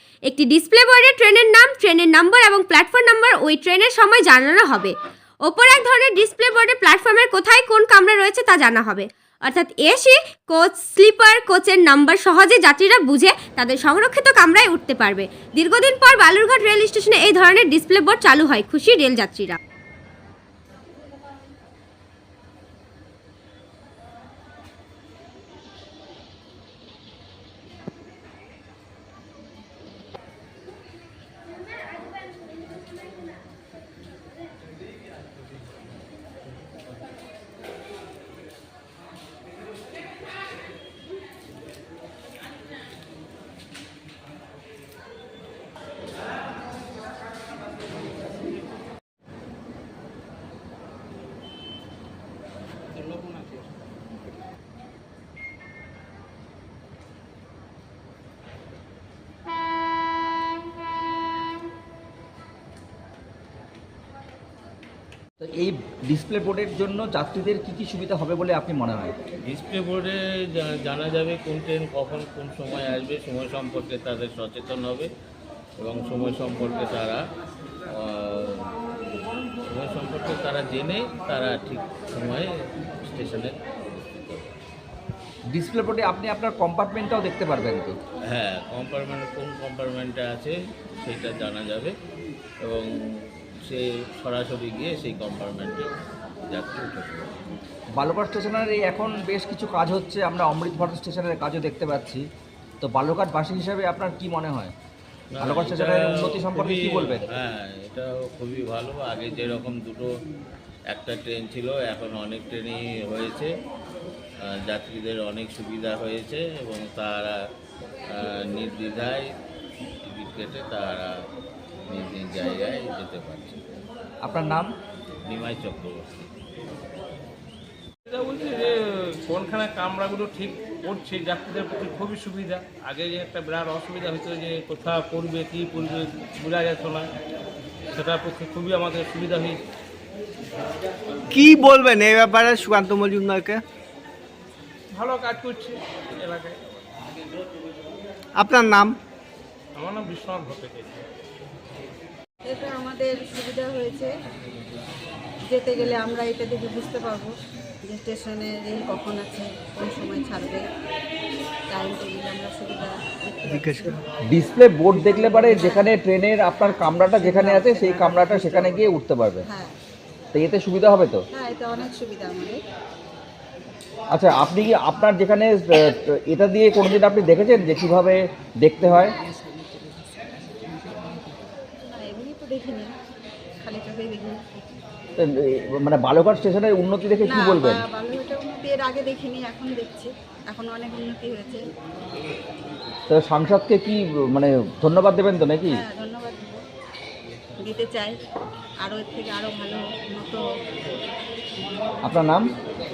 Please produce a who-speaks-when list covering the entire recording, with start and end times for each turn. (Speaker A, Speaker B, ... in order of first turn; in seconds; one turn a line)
Speaker A: 0.3-4.9
Speaker A: 5.4-19.6
Speaker B: 65.4-69.2
Speaker C: 69.5-75.1
Speaker C: 75.8-77.2
Speaker C: 77.9-78.7
Speaker C: 79.6-82.5
Speaker C: 83.0-84.6
Speaker B: 85.5-87.9
Speaker C: 88.3-91.9
Speaker C: 92.6-95.9
Speaker C: 96.5-97.4
Speaker B: 98.0-102.2
Speaker B: 102.8-104.7
Speaker C: 105.3-110.1
Speaker B: 105.4-107.3
Speaker C: 110.9-113.5
Speaker C: 114.5-117.3
Speaker C: 118.1-119.2
Speaker C: 120.0-121.1
Speaker C: 121.9-123.7
Speaker B: 124.2-124.7
Speaker C: 125.2-126.3
Speaker D: 128.1-137.1
Speaker D: 137.9-139.6
Speaker E: 141.3-143.6
Speaker D: 144.9-146.8
Speaker E: 148.3-148.9
Speaker D: 149.8-151.0
Speaker F: 152.5-154.1
Speaker F: 155.5-157.3
Speaker F: 157.8-160.6
Speaker F: 161.7-164.0
Speaker E: 163.5-163.9
Speaker B: 164.3-169.4
Speaker F: 165.3-165.8
Speaker F: 167.2-168.7
Speaker F: 169.5-169.7
Speaker B: 170.3-171.2
Speaker F: 171.3-172.6
Speaker B: 174.1-179.1
Speaker F: 181.8-182.9
Speaker F: 183.6-184.5
Speaker B: 185.2-187.8
Speaker F: 187.2-191.6
Speaker B: 193.1-195.8
Speaker F: 195.7-196.6
Speaker F: 197.6-198.1
Speaker F: 198.8-200.4
Speaker B: 202.0-202.5